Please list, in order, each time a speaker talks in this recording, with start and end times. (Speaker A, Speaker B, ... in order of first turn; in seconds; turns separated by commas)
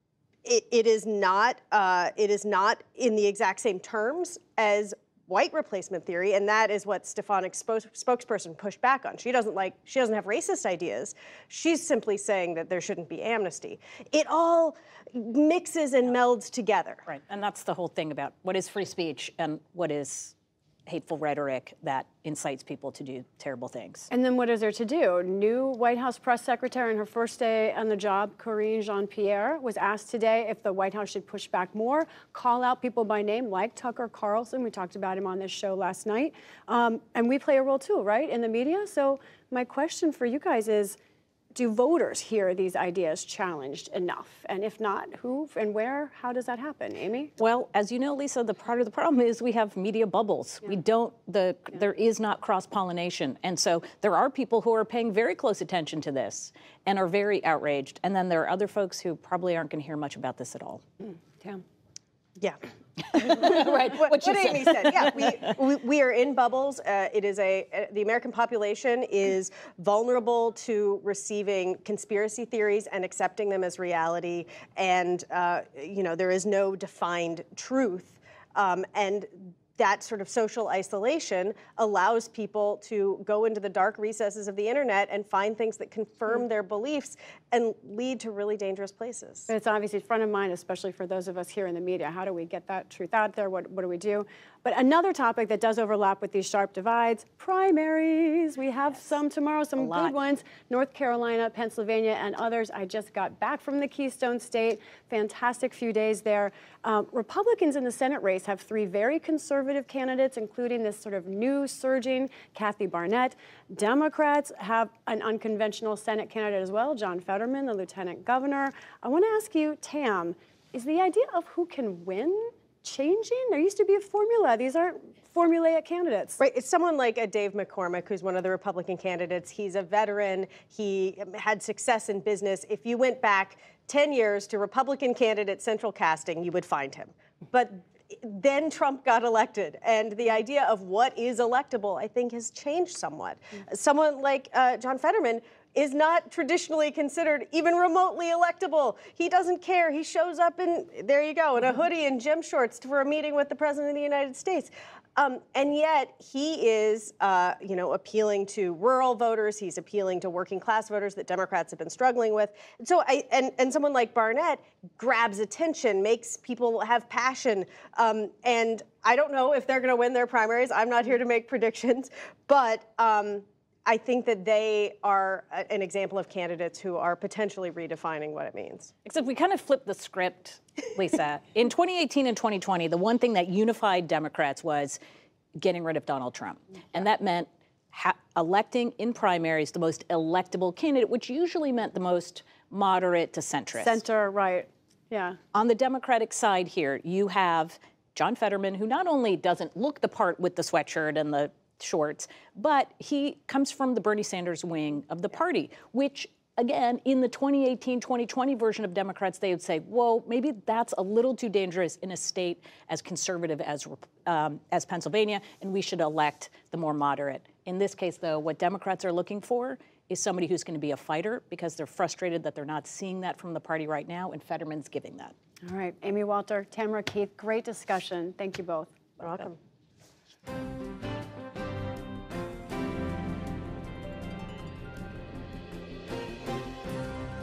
Speaker A: 0.5-17.0, Speaker B: 17.1-20.3, Speaker B: 20.9-24.1, Speaker C: 24.1-41.0, Speaker C: 41.5-47.3, Speaker B: 47.4-60.8, Speaker C: 61.0-61.6, Speaker B: 63.1-65.6, Speaker A: 63.5-89.5, Speaker C: 89.5-126.4, Speaker B: 98.9-99.2, Speaker B: 99.8-100.2, Speaker A: 126.4-178.9, Speaker B: 179.0-185.0, Speaker B: 185.6-194.0, Speaker C: 193.7-195.4, Speaker B: 195.5-225.3, Speaker C: 225.6-229.5